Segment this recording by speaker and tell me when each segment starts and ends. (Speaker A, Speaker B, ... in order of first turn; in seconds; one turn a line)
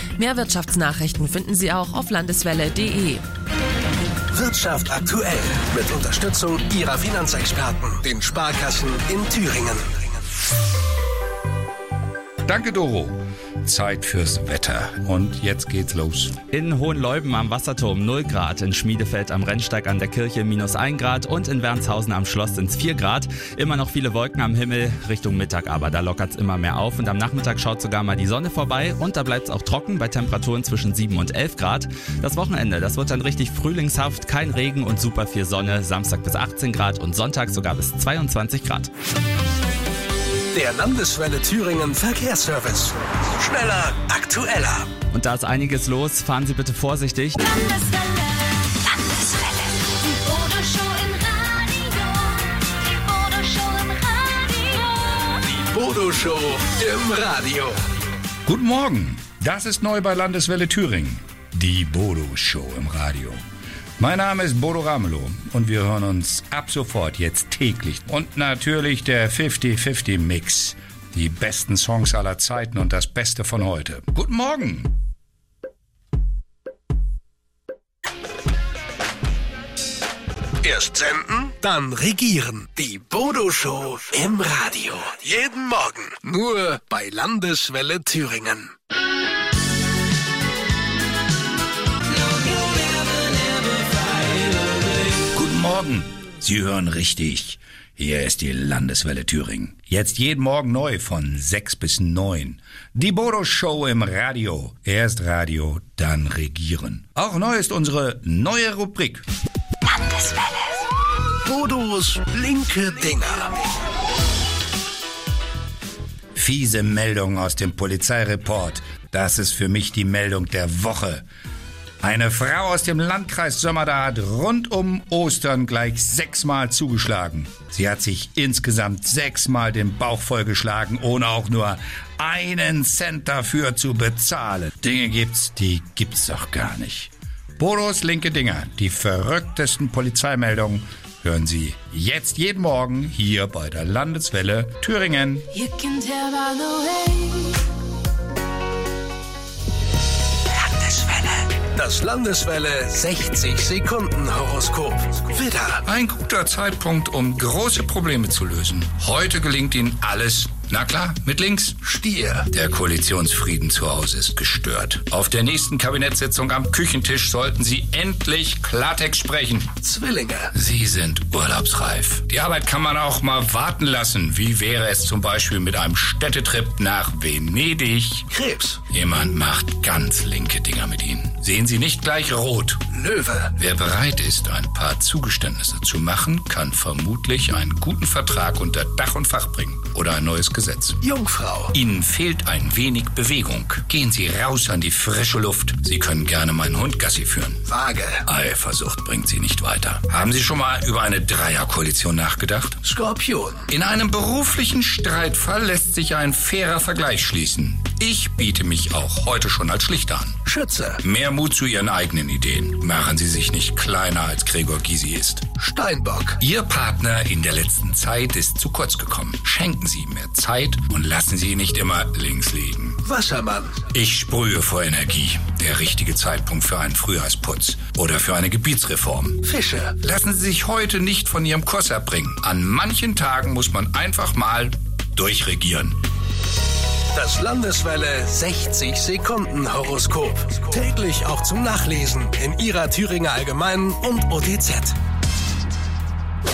Speaker A: 0.2-3.2
Speaker B: 4.3-10.1
Speaker C: 12.5-16.4
Speaker D: 16.5-38.8
Speaker B: 40.5-44.9
Speaker D: 45.1-47.4
Speaker E: 47.6-55.3
Speaker B: 55.3-57.8
Speaker C: 58.5-63.4
Speaker C: 64.0-74.9
Speaker B: 80.6-88.7
Speaker C: 95.3-109.2
Speaker E: 109.8-110.8
Speaker B: 111.4-113.5
Speaker C: 116.3-121.2
Speaker C: 122.0-145.5
Speaker E: 145.6-147.6
Speaker B: 150.6-155.8
Speaker C: 155.8-161.8
Speaker B: 161.8-162.5
Speaker C: 162.5-169.7
Speaker B: 169.8-170.5
Speaker C: 170.5-178.3
Speaker B: 178.3-178.8
Speaker C: 178.9-182.9
Speaker B: 182.9-183.5
Speaker C: 183.5-191.0
Speaker B: 191.0-191.7
Speaker C: 191.7-197.6
Speaker B: 197.7-198.2
Speaker C: 198.2-202.8
Speaker B: 202.8-203.7
Speaker C: 203.7-210.4
Speaker B: 210.5-211.0
Speaker C: 211.0-215.6
Speaker B: 215.6-216.4
Speaker C: 216.4-223.0
Speaker B: 223.0-223.8
Speaker C: 223.9-229.4
Speaker B: 229.4-230.0
Speaker C: 230.0-236.0
Speaker B: 237.1-245.0